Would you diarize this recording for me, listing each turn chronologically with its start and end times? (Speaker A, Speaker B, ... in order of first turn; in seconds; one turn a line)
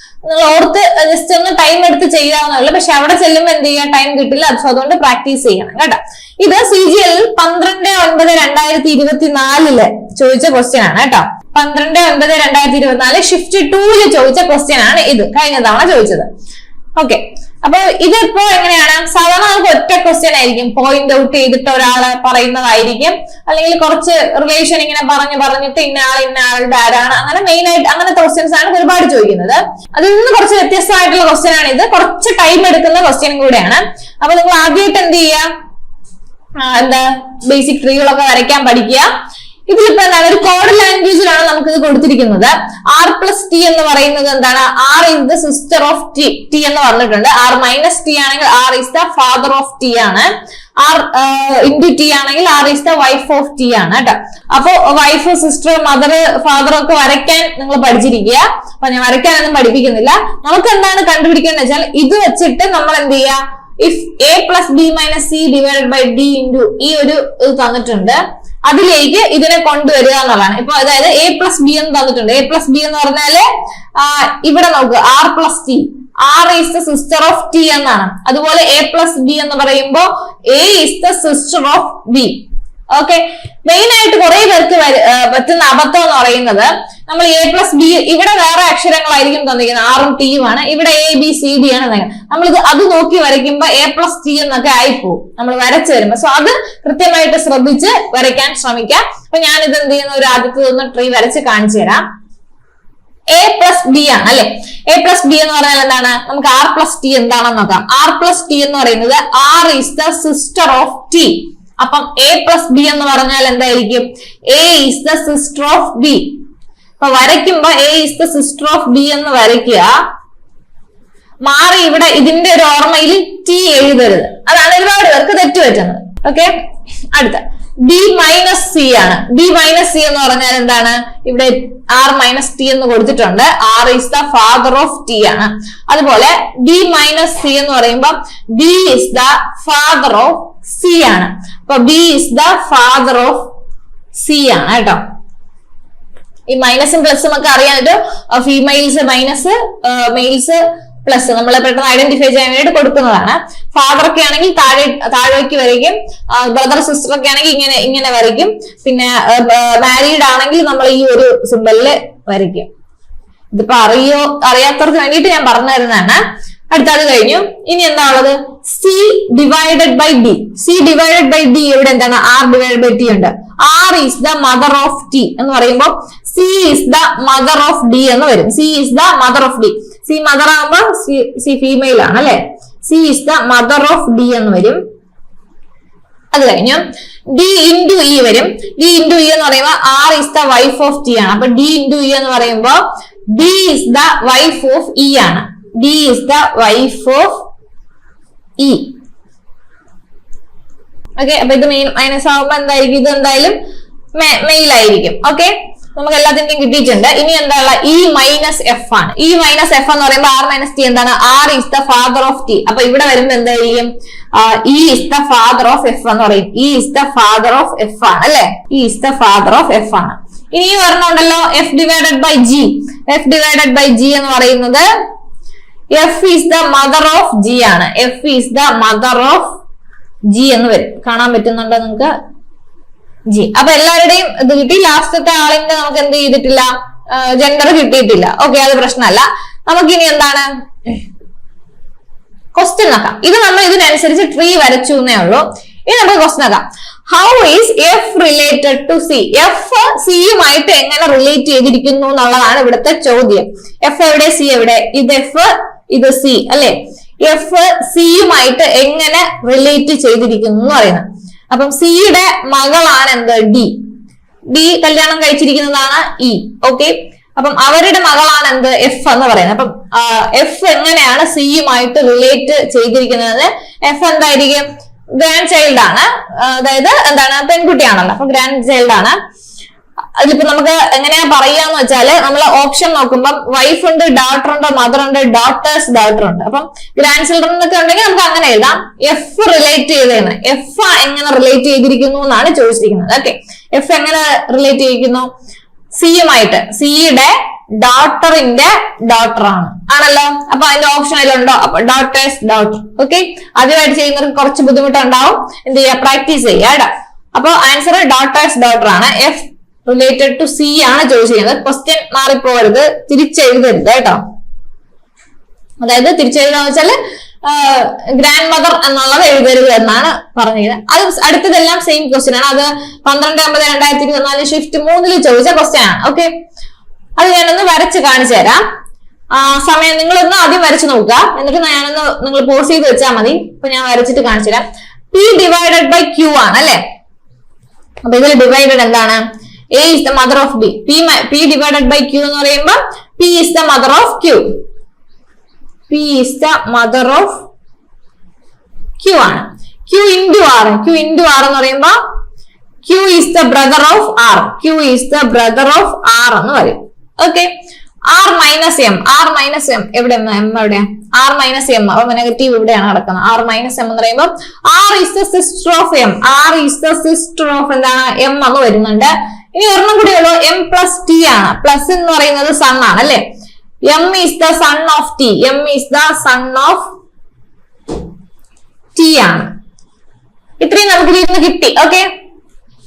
Speaker A: 0.2-16.3
Speaker A: 17.0-35.5
Speaker A: 36.6-39.1
Speaker A: 39.7-50.3
Speaker A: 50.8-82.4
Speaker A: 83.0-102.0
Speaker A: 103.3-116.4
Speaker A: 117.0-119.9
Speaker A: 121.5-126.5
Speaker A: 127.1-143.5
Speaker A: 144.2-145.0
Speaker A: 146.5-162.7
Speaker A: 163.5-184.8
Speaker A: 186.3-192.8
Speaker A: 193.3-197.4
Speaker A: 198.6-198.9
Speaker A: 201.2-203.6
Speaker A: 204.2-224.8
Speaker A: 225.9-229.6
Speaker A: 230.3-232.1
Speaker A: 233.3-241.0
Speaker A: 242.6-263.8
Speaker A: 264.5-279.2
Speaker A: 280.2-295.3
Speaker A: 296.0-314.2
Speaker A: 315.8-326.3
Speaker A: 327.2-328.6
Speaker A: 329.3-336.8
Speaker A: 338.1-339.2
Speaker A: 339.8-344.5
Speaker A: 345.9-347.5
Speaker A: 349.0-352.0
Speaker A: 352.8-357.5
Speaker A: 358.1-373.2
Speaker A: 373.9-376.9
Speaker A: 379.0-379.5
Speaker A: 380.6-382.1